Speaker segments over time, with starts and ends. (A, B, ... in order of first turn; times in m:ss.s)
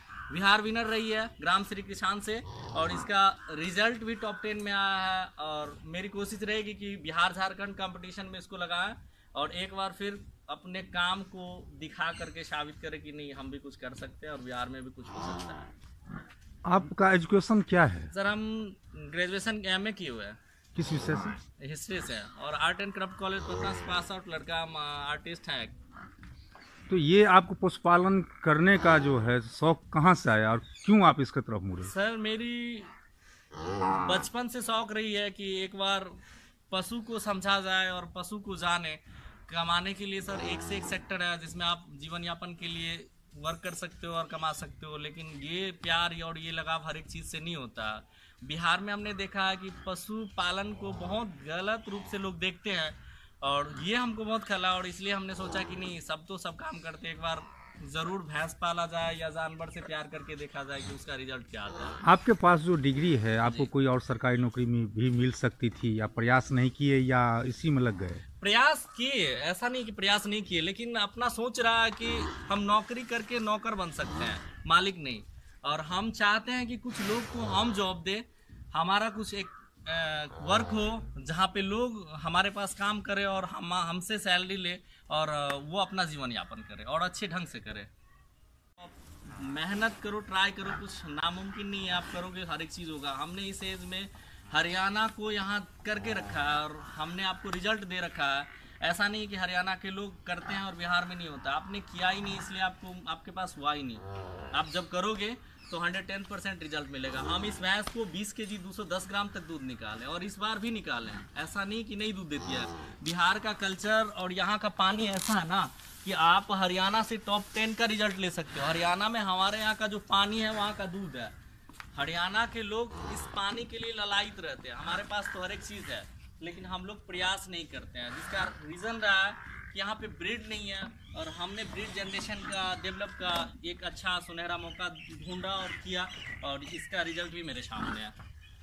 0:00.3-0:15.7 A
0:16.6-0:18.1 B
0:18.1-0:20.4 A
0:20.8-0:21.3 B
0:21.6-0:25.8 A
0:26.9-0:31.9 B
0:31.8-0:32.9 A
0:33.9-1:02.0 A
1:02.0-1:08.2 B
1:03.4-1:03.7 A
1:08.4-1:27.9 A
1:28.8-2:01.3 A
2:01.9-2:18.1 A